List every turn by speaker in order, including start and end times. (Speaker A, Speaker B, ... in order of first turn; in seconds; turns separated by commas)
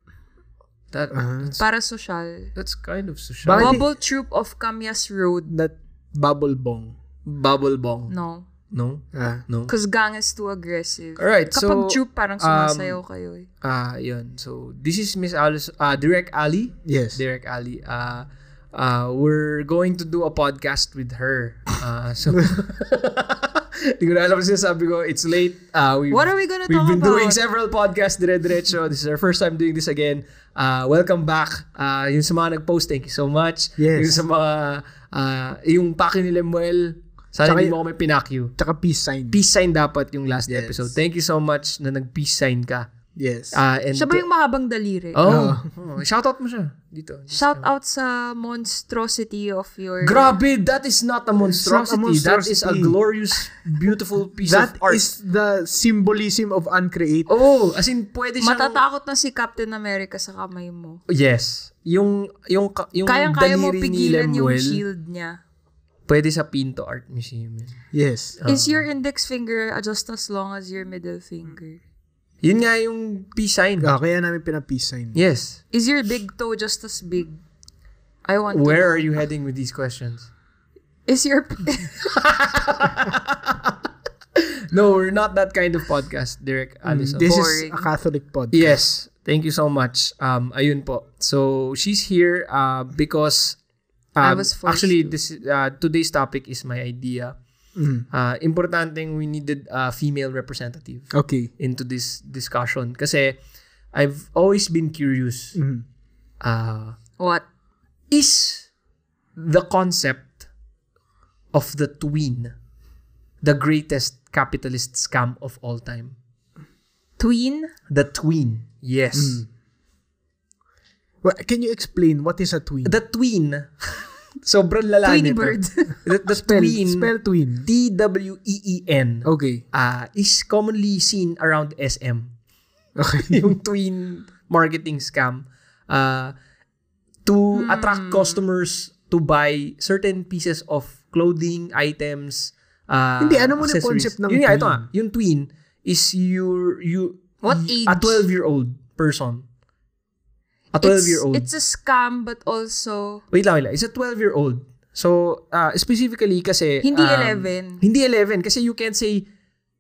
Speaker A: 0.9-1.6, Speaker B: 1.1-1.5, Speaker C: 1.6-2.5, Speaker A: 2.5-3.8, Speaker B: 3.5-3.8, Speaker C: 3.5-5.5, Speaker B: 5.5-7.0, Speaker A: 7.3-8.1, Speaker C: 8.1-8.5, Speaker A: 8.7-9.7, Speaker B: 9.1-9.4, Speaker C: 9.7-13.5, Speaker A: 11.2-13.0, Speaker A: 13.6-38.5, Speaker B: 16.9-17.2, Speaker C: 26.1-27.4, Speaker B: 33.8-34.2, Speaker B: 37.5-37.8, Speaker B: 38.6-39.4, Speaker A: 39.3-42.9, Speaker B: 40.5-40.9, Speaker B: 43.2-43.6, Speaker A: 43.5-44.2, Speaker C: 43.9-45.3, Speaker A: 45.1-47.7, Speaker B: 45.2-45.7, Speaker C: 47.3-50.4, Speaker A: 50.0-55.0, Speaker B: 51.4-53.0, Speaker B: 54.4-57.3, Speaker A: 57.3-58.8, Speaker C: 58.4-61.0, Speaker A: 61.1-64.8, Speaker C: 63.0-65.4, Speaker A: 66.1-67.8, Speaker B: 67.9-68.4, Speaker A: 68.4-68.8, Speaker C: 68.5-71.8, Speaker A: 72.4-73.9, Speaker B: 73.8-75.2, Speaker A: 75.2-75.6, Speaker C: 75.7-77.4, Speaker C: 78.2-79.0, Speaker A: 78.5-80.3, Speaker C: 81.1-82.1, Speaker A: 82.2-83.8, Speaker A: 84.4-87.3, Speaker B: 86.9-88.7, Speaker C: 87.2-87.9, Speaker A: 88.5-93.6, Speaker A: 94.2-97.3, Speaker C: 94.2-95.2, Speaker B: 97.8-98.0, Speaker A: 98.1-103.4, Speaker B: 101.1-101.5, Speaker A: 103.9-105.6, Speaker B: 105.5-105.8, Speaker A: 106.4-107.0, Speaker C: 107.2-107.5, Speaker A: 108.1-108.7, Speaker A: 109.4-110.4, Speaker A: 111.5-112.5, Speaker A: 113.4-116.1, Speaker C: 117.2-117.7, Speaker A: 117.9-119.4, Speaker B: 119.1-119.5, Speaker B: 121.2-122.9, Speaker A: 122.8-127.1, Speaker C: 125.0-126.0, Speaker B: 126.4-127.7, Speaker A: 127.7-132.3, Speaker B: 129.2-129.6, Speaker B: 133.0-133.5, Speaker A: 133.3-136.3, Speaker A: 137.2-149.4, Speaker C: 137.6-138.4, Speaker B: 143.2-144.9, Speaker C: 147.4-148.3, Speaker A: 150.7-151.5, Speaker C: 150.8-153.2, Speaker A: 153.3-159.3, Speaker C: 156.8-157.8